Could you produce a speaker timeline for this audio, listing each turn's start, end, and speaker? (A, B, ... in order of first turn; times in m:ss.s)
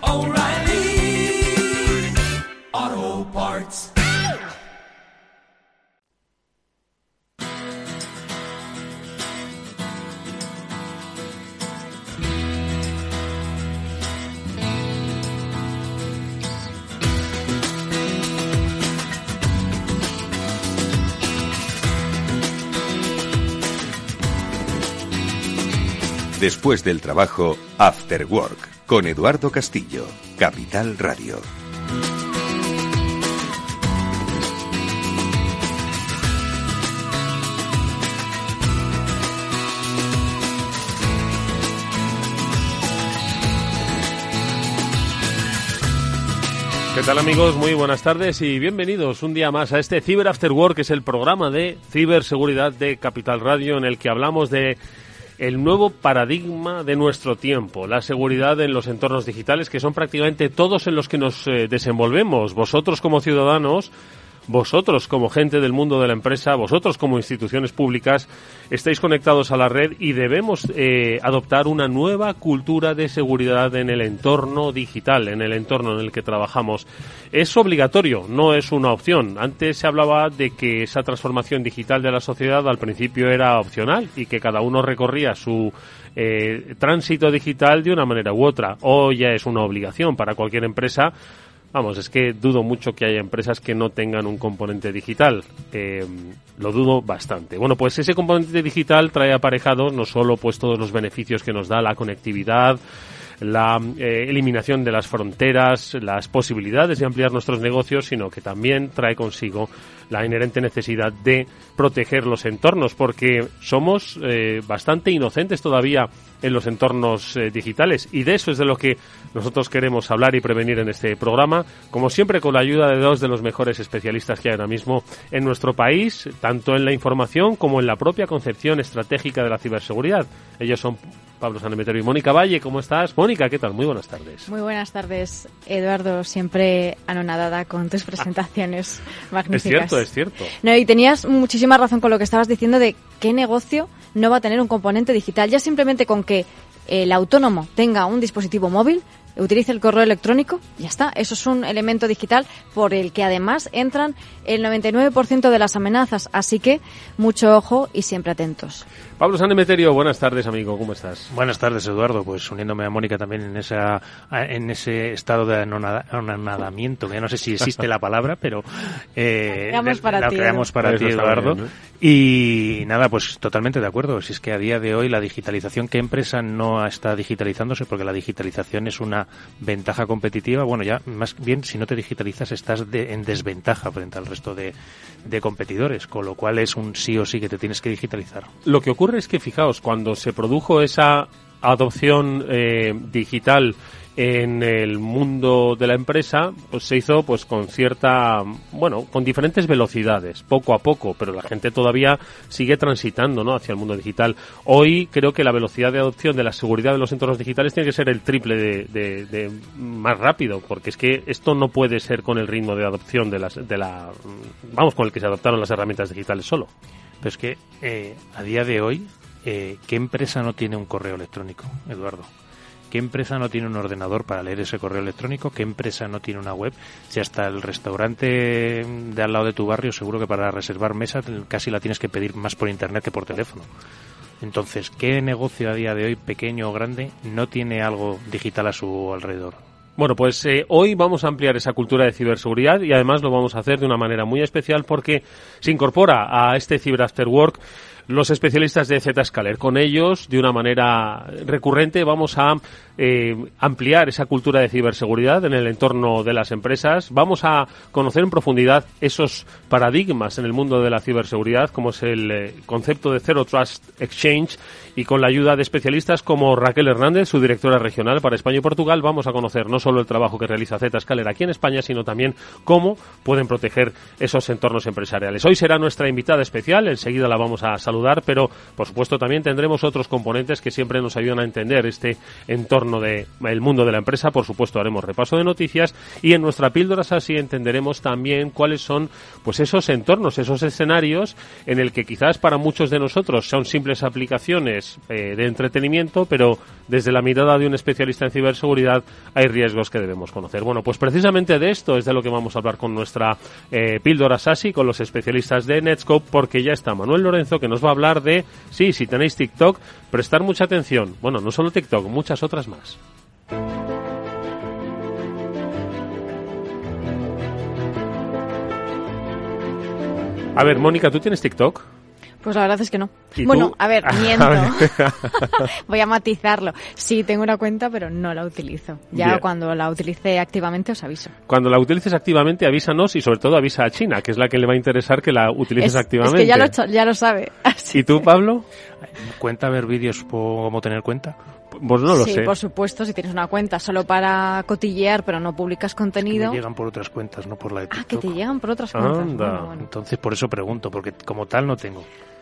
0:26.4-0:31.5 A
0:46.9-0:54.8 B
0:55.4-1:03.9 B
1:04.5-1:31.1 B
1:31.7-1:42.8 B
1:43.4-2:14.5 B
2:14.5-2:20.1 C
2:19.5-2:20.5 B
2:20.6-2:38.8 C
2:39.2-2:41.3 B
2:41.3-3:08.5 D
2:49.7-2:50.7 C
2:50.8-2:51.7 B
3:08.6-3:36.7 B
3:37.2-3:42.3 D
3:42.9-3:53.7 D
3:54.4-3:59.6 D
4:00.0-5:13.0 B
5:20.6-5:21.9 B
5:22.4-5:31.3 C
5:23.4-5:25.7 B
5:29.1-5:29.4 B
5:31.5-5:36.7 B
5:35.8-5:38.3 C
5:37.9-5:38.7 B
5:39.0-5:41.4 D
5:41.7-5:42.5 B
5:42.1-5:46.6 C
5:46.3-5:48.4 D
5:47.9-5:49.9 C
5:48.9-5:49.7 B
5:49.8-5:52.1 D